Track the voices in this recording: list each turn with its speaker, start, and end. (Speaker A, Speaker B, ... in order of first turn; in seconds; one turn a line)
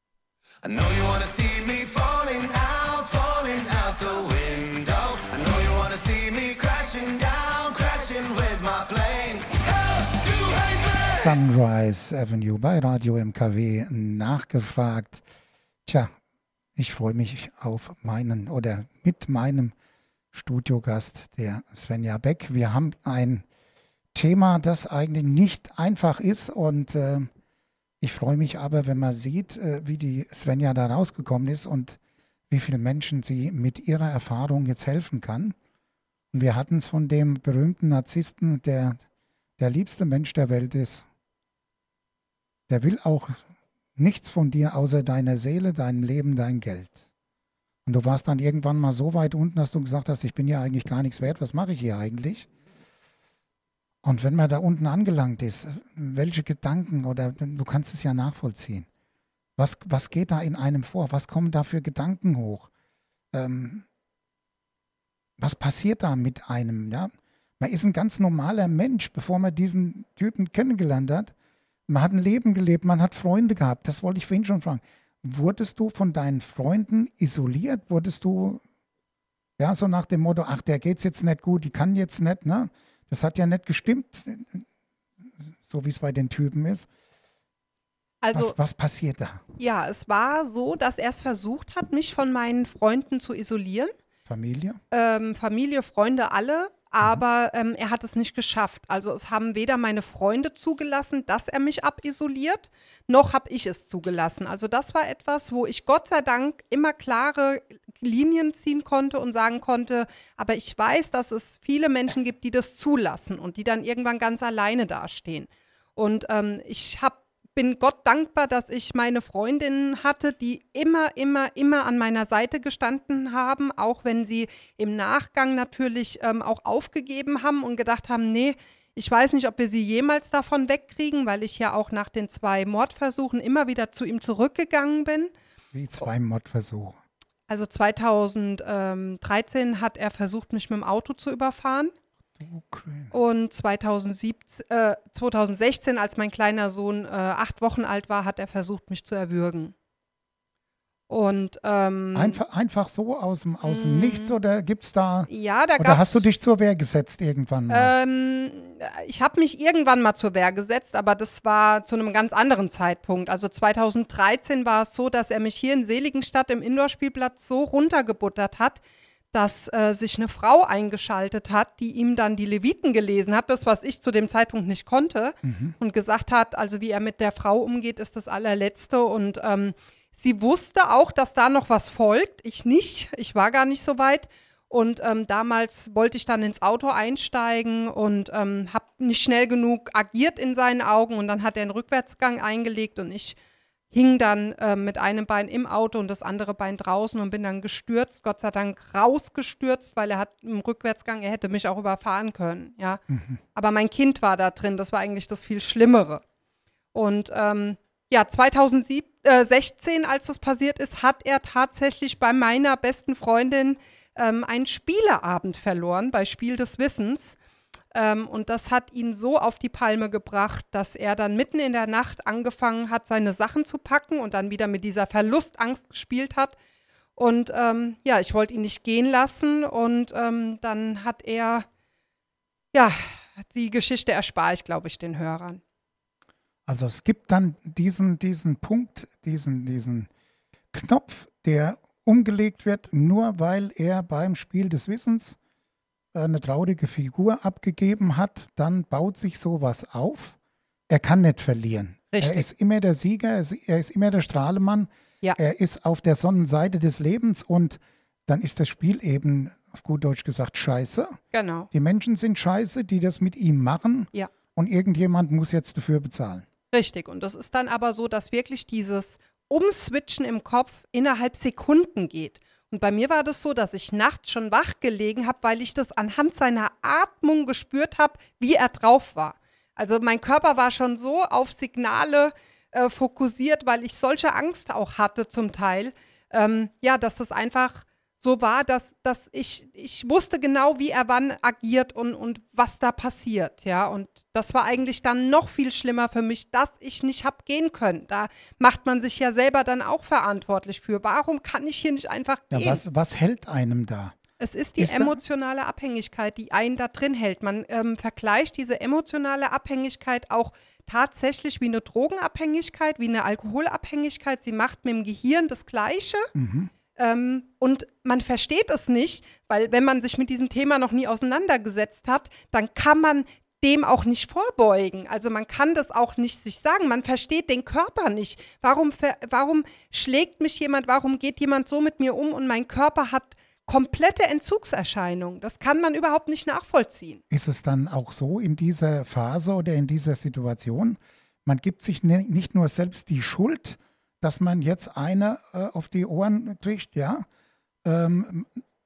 Speaker A: 0.6-11.3
Speaker B: 11.0-15.2
Speaker B: 15.9-16.1
Speaker B: 16.8-19.8
Speaker B: 20.3-23.4
Speaker B: 24.1-27.3
Speaker B: 28.0-32.0
Speaker B: 32.5-35.6
Speaker B: 36.3-39.0
Speaker B: 39.6-41.0
Speaker B: 42.7-43.5
Speaker B: 44.0-47.0
Speaker B: 47.9-52.5
Speaker B: 54.0-58.9
Speaker B: 59.6-62.7
Speaker B: 63.3-63.9
Speaker B: 65.4-71.3
Speaker B: 71.9-78.6
Speaker B: 79.6-84.7
Speaker B: 85.2-86.9
Speaker C: 88.2-88.6
Speaker B: 88.3-89.4
Speaker C: 89.6-93.9
Speaker B: 94.3-94.8
Speaker C: 94.9-135.3
Speaker B: 135.7-137.0
Speaker C: 137.5-141.9
Speaker B: 142.4-143.1
Speaker C: 143.1-149.7
Speaker C: 151.1-152.4
Speaker B: 152.2-157.9
Speaker C: 153.6-154.3
Speaker C: 155.3-156.2
Speaker C: 157.7-168.8
Speaker C: 169.3-193.4
Speaker B: 175.4-175.8
Speaker C: 193.9-203.0
Speaker B: 203.1-203.4
Speaker C: 203.6-206.2
Speaker C: 206.9-217.4
Speaker C: 217.9-226.6
Speaker C: 227.2-231.7
Speaker C: 232.7-235.6
Speaker B: 236.7-240.1
Speaker B: 240.7-245.4
Speaker B: 246.1-250.4
Speaker B: 250.9-261.2
Speaker C: 252.1-252.5
Speaker C: 261.3-261.7
Speaker B: 261.7-266.5
Speaker C: 266.7-302.8
Speaker B: 302.5-304.2
Speaker C: 304.4-316.3
Speaker B: 304.8-305.2
Speaker B: 316.3-316.7
Speaker C: 317.0-337.2
Speaker B: 337.3-347.3
Speaker B: 347.9-348.6